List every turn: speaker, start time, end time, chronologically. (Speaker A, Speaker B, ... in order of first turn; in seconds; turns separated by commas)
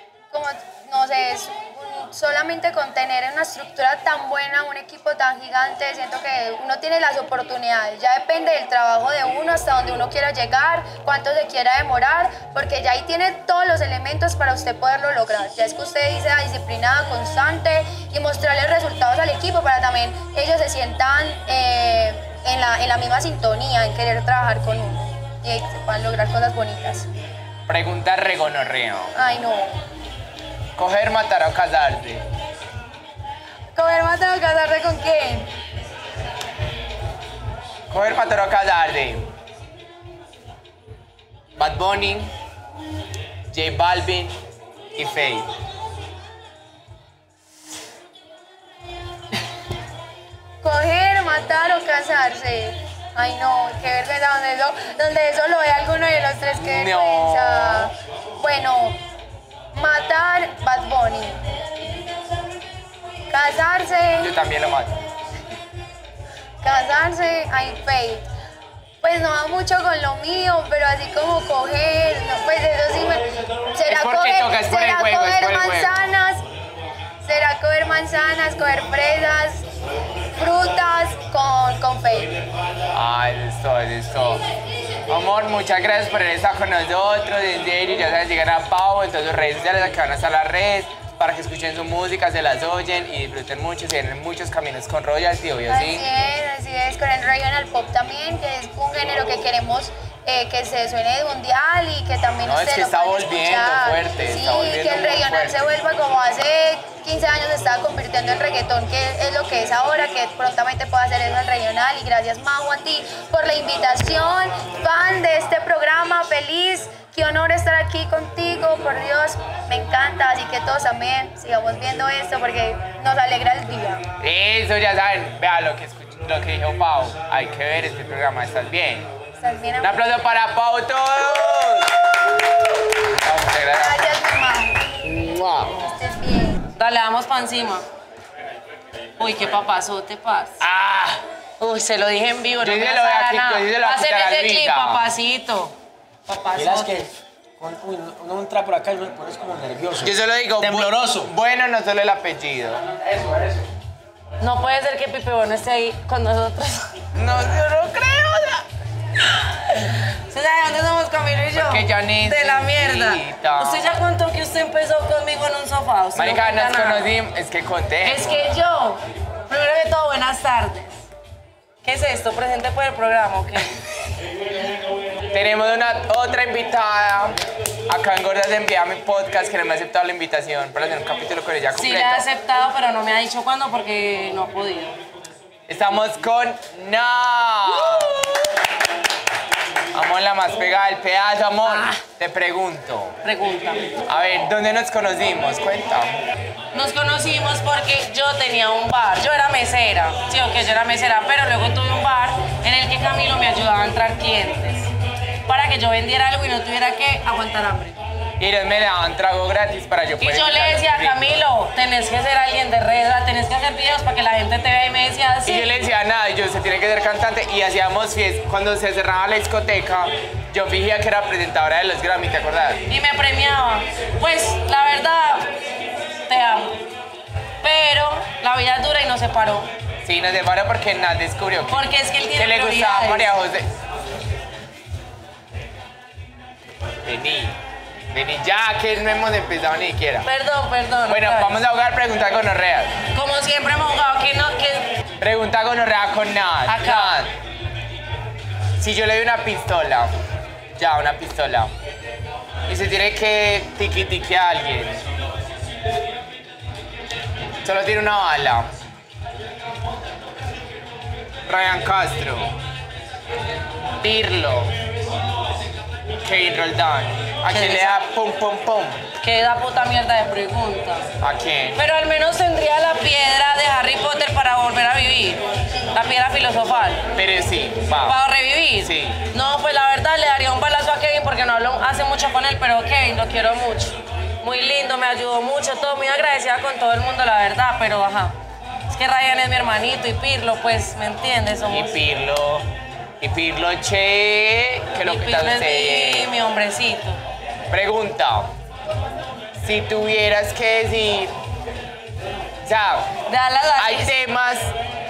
Speaker A: 0.3-27.1, Speaker B: 27.7-29.1, Speaker A: 29.1-29.7, Speaker B: 30.8-32.2, Speaker A: 33.8-35.5, Speaker B: 37.9-39.2, Speaker B: 41.6-42.3, Speaker B: 43.5-44.4, Speaker B: 45.0-45.5, Speaker A: 50.6-59.0, Speaker B: 56.6-57.9, Speaker A: 59.7-61.5, Speaker A: 63.3-64.3, Speaker B: 64.2-65.1, Speaker A: 66.6-68.3, Speaker A: 69.0-76.4, Speaker B: 73.9-76.0, Speaker A: 77.2-79.7, Speaker A: 80.4-82.4, Speaker B: 82.9-84.4, Speaker B: 85.1-96.0, Speaker A: 95.7-124.0, Speaker B: 102.5-105.8, Speaker B: 124.2-129.1, Speaker A: 129.4-130.2, Speaker B: 129.8-132.0, Speaker B: 133.2-134.1, Speaker A: 133.8-134.9, Speaker B: 135.0-135.8, Speaker A: 135.8-136.6, Speaker C: 136.8-137.8, Speaker C: 139.2-140.6, Speaker B: 140.6-141.2, Speaker C: 141.6-145.7, Speaker B: 142.6-145.0, Speaker C: 146.3-147.1, Speaker D: 146.6-151.3, Speaker B: 150.0-152.8, Speaker C: 154.4-157.0, Speaker B: 157.2-158.6, Speaker C: 159.2-167.1, Speaker B: 161.5-164.0, Speaker B: 166.2-168.5, Speaker C: 168.0-171.0, Speaker C: 171.8-173.8, Speaker B: 175.3-177.4, Speaker B: 177.9-182.2, Speaker C: 181.7-185.0, Speaker B: 185.7-188.3, Speaker B: 189.9-193.2, Speaker C: 191.7-192.0, Speaker C: 193.2-193.9, Speaker B: 194.1-196.1, Speaker C: 196.7-204.9, Speaker C: 205.5-208.0, Speaker B: 208.4-211.2, Speaker C: 210.2-215.9, Speaker B: 215.5-222.8, Speaker C: 222.9-225.5, Speaker C: 226.3-226.8, Speaker C: 227.6-229.7, Speaker B: 230.0-231.8, Speaker C: 231.7-233.3, Speaker B: 232.3-233.7, Speaker B: 237.0-237.6, Speaker B: 238.1-240.3, Speaker C: 240.2-241.6, Speaker B: 241.1-243.0, Speaker C: 243.1-244.9, Speaker B: 245.2-247.3, Speaker C: 246.7-247.2, Speaker B: 248.8-250.1, Speaker B: 250.8-251.7, Speaker B: 252.7-255.0, Speaker B: 257.6-258.7, Speaker B: 261.5-262.5, Speaker B: 264.0-264.7, Speaker B: 266.2-269.1, Speaker C: 267.5-268.0, Speaker C: 269.2-271.1, Speaker B: 271.2-271.8, Speaker C: 271.8-275.4, Speaker C: 275.9-277.0, Speaker B: 277.1-278.2, Speaker C: 278.0-288.3, Speaker B: 278.8-279.2, Speaker C: 288.9-291.9, Speaker B: 291.7-292.7, Speaker B: 293.2-296.3, Speaker C: 295.0-297.2, Speaker B: 297.7-298.5, Speaker B: 299.6-301.3, Speaker B: 302.6-303.1, Speaker C: 303.3-304.2, Speaker B: 303.8-304.7